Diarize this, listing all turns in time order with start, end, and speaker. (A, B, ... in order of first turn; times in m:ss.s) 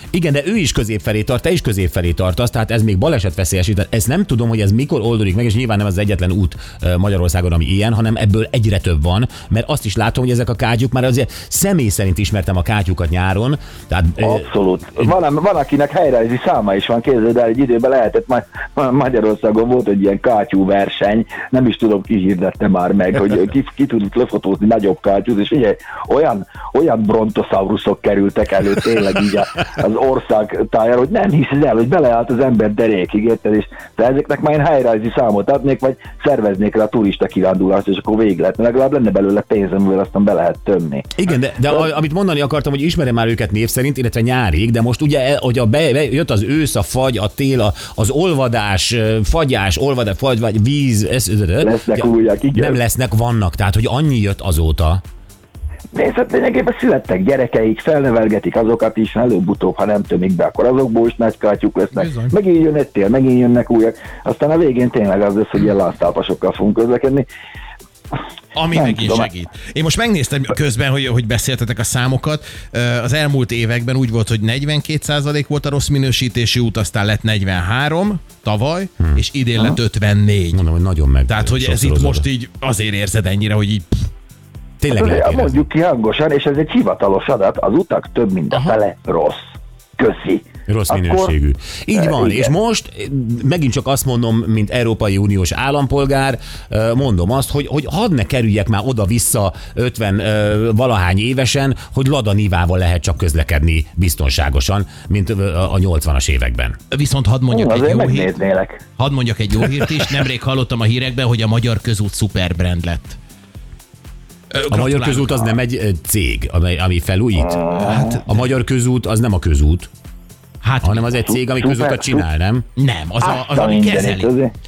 0:00.1-0:14.5 A
0:14.2-0:41.1 B
0:41.2-0:55.0 A
0:51.6-0:52.8 B
0:55.9-1:07.2 B
1:01.9-1:02.3 C
1:08.5-1:20.6 C
1:08.7-1:09.3 B
1:20.5-1:22.2 A
1:21.3-1:24.1 C
1:24.8-1:25.7 A
1:24.9-1:31.3 B
1:30.7-1:46.8 A
1:32.0-1:32.5 B
1:46.9-1:48.3 C
1:47.5-1:48.8 B
1:49.0-1:53.2 C
1:54.5-1:55.6 C
1:54.7-1:57.6 A
1:57.4-1:58.2 B
1:57.8-1:58.4 C
1:58.2-1:59.9 A
2:00.6-2:01.1 C
2:00.8-2:02.6 A
2:01.2-2:02.2 B
2:02.8-2:04.3 C
2:03.2-2:04.5 B